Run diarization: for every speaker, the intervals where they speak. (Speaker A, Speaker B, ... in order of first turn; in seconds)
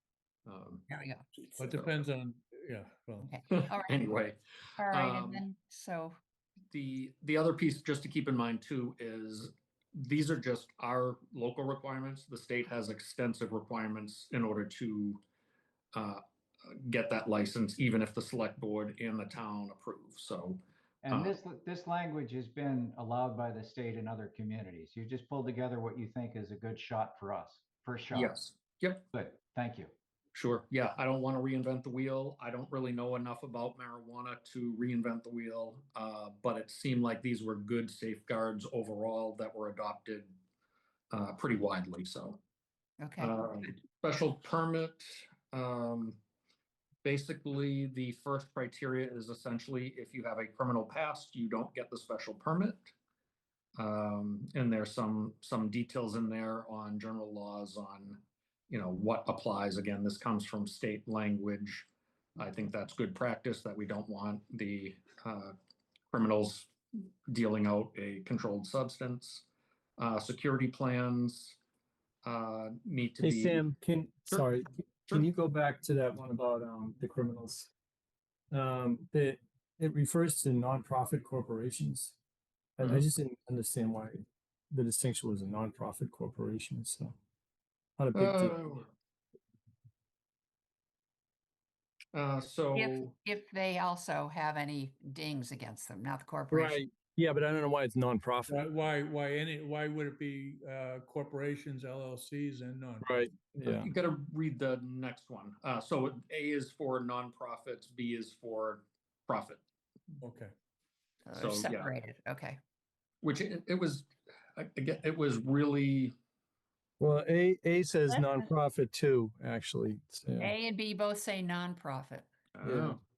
Speaker A: 0.5-0.9, 1.5-2.0, 3.9-5.4, 6.7-15.2, 15.9-21.4, 28.1-29.1, 30.4-40.4, 41.1-42.4, 43.2-46.2, 47.0-52.9, 53.8-65.5, 66.1-66.7, 67.3-69.5, 70.0-71.6, 72.2-73.7, 88.2-88.9, 92.1-93.1, 103.7-109.6, 111.4-111.9, 113.2-116.2, 122.5-123.0
Speaker B: 0.9-1.3, 3.2-4.2, 4.8-6.2, 43.0-43.4, 92.8-96.8, 111.2-112.6, 118.1-118.4, 120.4-122.4
Speaker C: 1.6-3.4, 98.5-103.3, 110.2-110.5
Speaker D: 21.0-28.3, 29.1-29.9
Speaker E: 73.2-77.7, 78.5-82.2, 82.8-87.2, 88.0-88.6, 96.5-98.6, 103.0-103.9, 117.0-120.5, 122.6-123.0